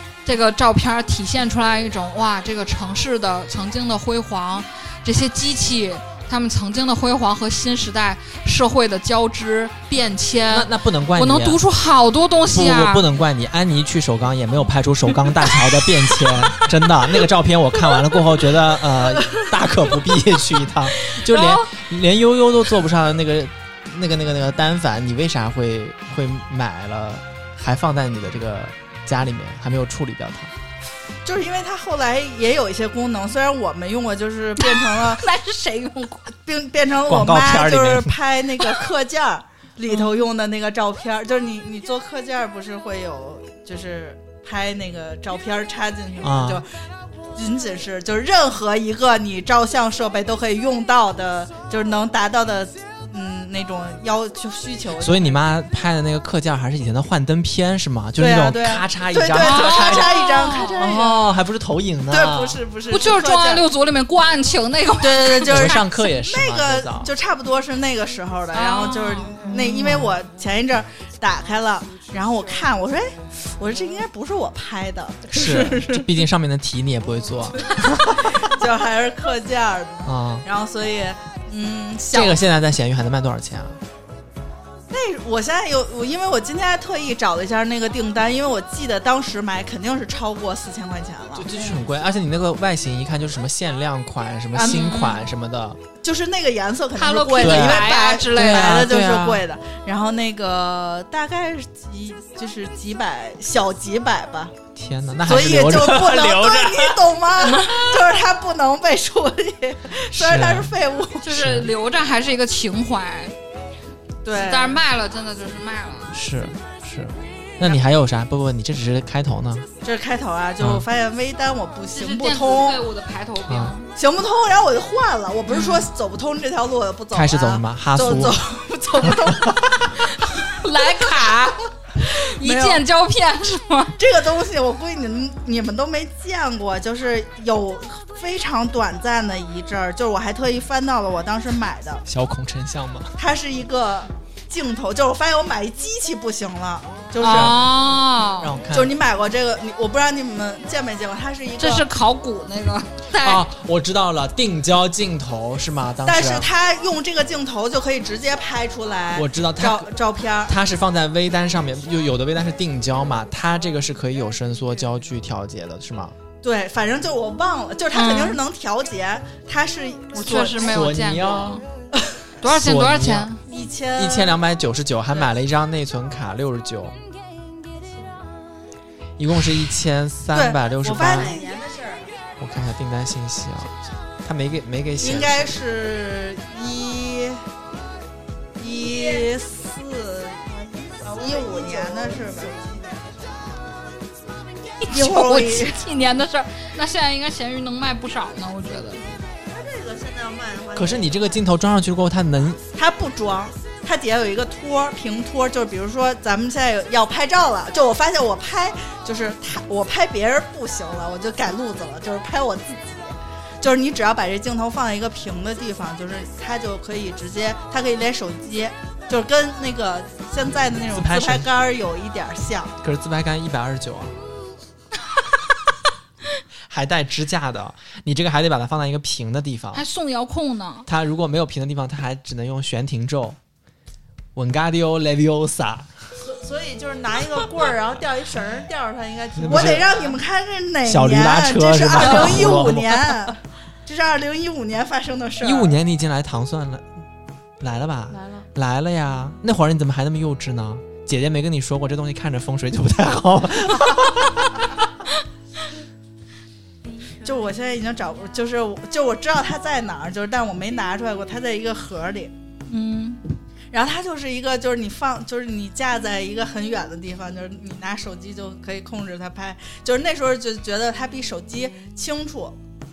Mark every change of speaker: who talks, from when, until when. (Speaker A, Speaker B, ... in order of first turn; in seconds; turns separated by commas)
Speaker A: 0.2-13.0, Speaker B: 10.5-11.6, Speaker B: 12.5-30.5, Speaker A: 21.3-21.7, Speaker C: 31.2-35.2, Speaker A: 34.6-36.3, Speaker C: 36.3-46.7, Speaker B: 37.1-38.2, Speaker B: 46.2-46.6, Speaker C: 47.3-55.4, Speaker B: 55.0-60.2, Speaker C: 58.2-61.3, Speaker A: 59.3-60.8, Speaker B: 60.8-62.6, Speaker C: 62.1-63.7, Speaker A: 62.9-65.8, Speaker C: 65.0-76.0, Speaker B: 65.5-67.1, Speaker A: 68.5-69.5, Speaker B: 69.5-70.1, Speaker B: 75.3-78.0, Speaker C: 77.7-82.4, Speaker B: 80.0-80.4, Speaker B: 82.1-83.8, Speaker C: 84.9-91.5, Speaker B: 91.3-95.8, Speaker C: 94.5-95.0, Speaker A: 94.8-95.2, Speaker C: 96.0-104.5, Speaker A: 97.0-98.7, Speaker B: 97.4-99.4, Speaker B: 104.7-107.0, Speaker C: 105.2-111.2, Speaker A: 107.4-108.0, Speaker B: 110.1-110.7, Speaker A: 111.2-113.3, Speaker B: 111.3-111.7, Speaker C: 114.2-114.8, Speaker A: 114.3-116.1, Speaker B: 116.1-119.7, Speaker C: 119.8-122.8, Speaker B: 120.6-120.9, Speaker A: 121.9-123.9, Speaker C: 123.9-130.0, Speaker A: 125.5-125.9, Speaker B: 127.1-128.4, Speaker B: 129.0-129.5, Speaker A: 130.2-133.9, Speaker C: 132.1-132.8, Speaker C: 134.0-142.0, Speaker B: 142.1-143.1, Speaker C: 143.2-147.6, Speaker B: 147.2-147.7, Speaker A: 147.2-148.5, Speaker B: 148.4-148.9, Speaker C: 148.7-151.8, Speaker A: 151.6-153.4, Speaker B: 153.2-156.5, Speaker C: 156.1-160.5, Speaker B: 159.1-159.9, Speaker B: 160.5-166.1, Speaker C: 166.4-170.8, Speaker A: 167.9-168.4, Speaker A: 170.1-171.6, Speaker B: 170.6-171.6, Speaker A: 172.4-173.4, Speaker B: 172.4-173.3, Speaker C: 173.4-174.4, Speaker B: 173.9-176.9, Speaker D: 177.8-178.2, Speaker B: 179.2-181.3, Speaker C: 180.3-181.5, Speaker D: 180.9-182.2, Speaker B: 182.4-185.5, Speaker C: 185.0-187.4, Speaker C: 188.6-192.6, Speaker D: 188.6-189.3, Speaker D: 190.4-193.5, Speaker A: 194.8-199.0, Speaker C: 194.9-195.8, Speaker D: 199.4-201.4, Speaker B: 200.7-202.6, Speaker C: 202.7-222.7, Speaker B: 220.9-221.5, Speaker B: 222.8-224.1, Speaker B: 226.7-229.8, Speaker A: 229.7-230.9, Speaker B: 230.9-233.4, Speaker B: 234.3-235.9, Speaker D: 236.2-240.2, Speaker B: 239.4-239.8, Speaker C: 239.5-245.8, Speaker B: 240.8-243.2, Speaker B: 245.4-246.8, Speaker B: 247.6-254.8, Speaker D: 248.1-248.5, Speaker C: 257.2-262.3, Speaker A: 262.7-263.2, Speaker C: 263.7-272.6